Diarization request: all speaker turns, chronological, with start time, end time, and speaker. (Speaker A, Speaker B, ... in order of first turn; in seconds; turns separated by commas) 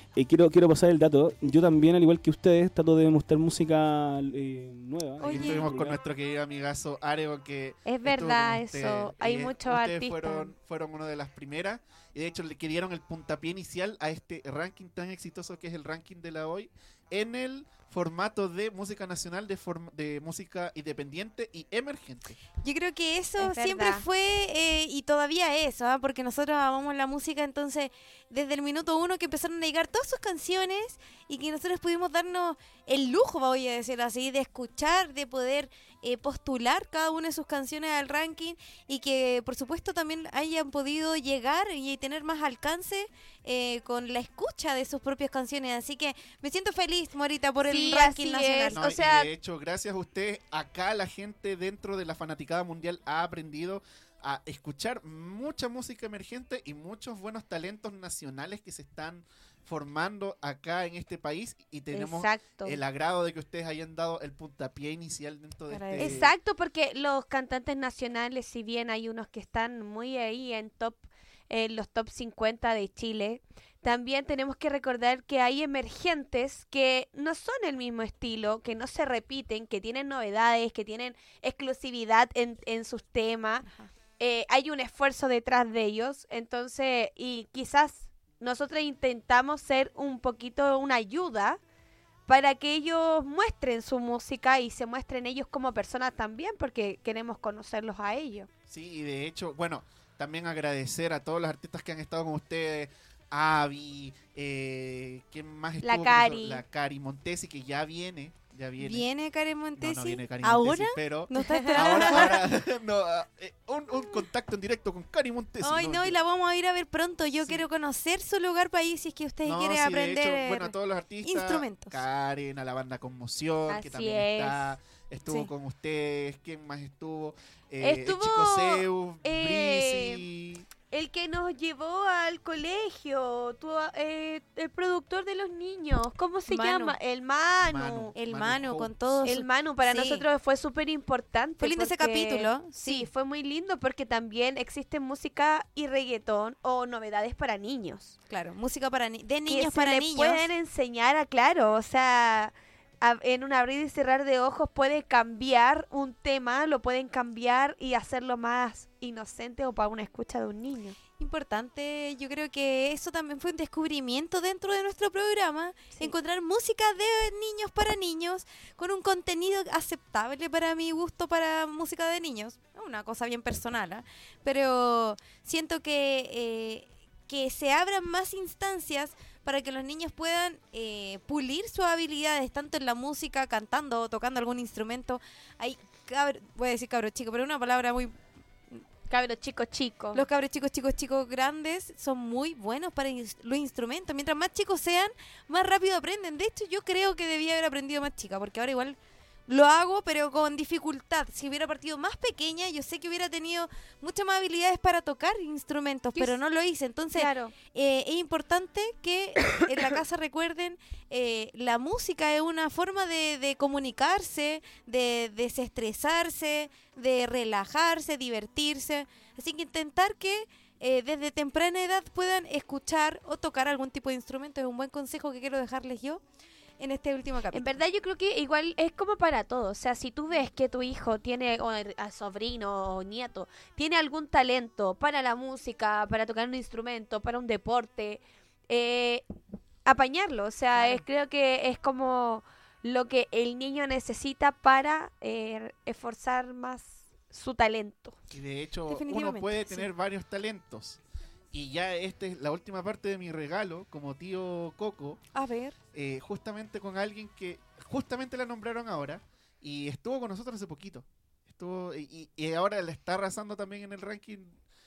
Speaker A: 0.1-6.0, Speaker B: 5.2-5.7, Speaker C: 5.2-22.4, Speaker D: 7.8-10.5, Speaker B: 22.6-48.8, Speaker D: 23.4-24.0, Speaker D: 47.6-49.3, Speaker C: 48.7-66.3, Speaker D: 61.9-62.8, Speaker B: 65.7-66.2, Speaker D: 66.0-83.6, Speaker D: 84.2-91.6, Speaker D: 92.3-98.5, Speaker C: 98.7-109.1, Speaker D: 105.8-106.6, Speaker B: 108.8-112.4, Speaker C: 109.8-116.2, Speaker D: 111.6-112.0, Speaker B: 115.6-122.0, Speaker C: 119.4-130.7, Speaker D: 123.7-124.7, Speaker D: 127.8-130.2, Speaker D: 130.9-138.1, Speaker B: 136.5-136.9, Speaker C: 137.7-138.9, Speaker B: 138.1-140.2, Speaker D: 139.2-148.2, Speaker B: 141.6-143.1, Speaker B: 148.3-150.5, Speaker D: 149.5-161.0, Speaker B: 161.2-188.2, Speaker D: 189.1-190.2, Speaker B: 190.1-226.2, Speaker D: 207.1-207.5, Speaker B: 226.8-227.8, Speaker D: 227.5-239.2, Speaker D: 239.8-248.2, Speaker B: 240.7-241.0, Speaker C: 248.3-251.0, Speaker B: 248.9-249.9, Speaker C: 251.5-255.2, Speaker B: 255.3-255.8, Speaker C: 255.9-264.6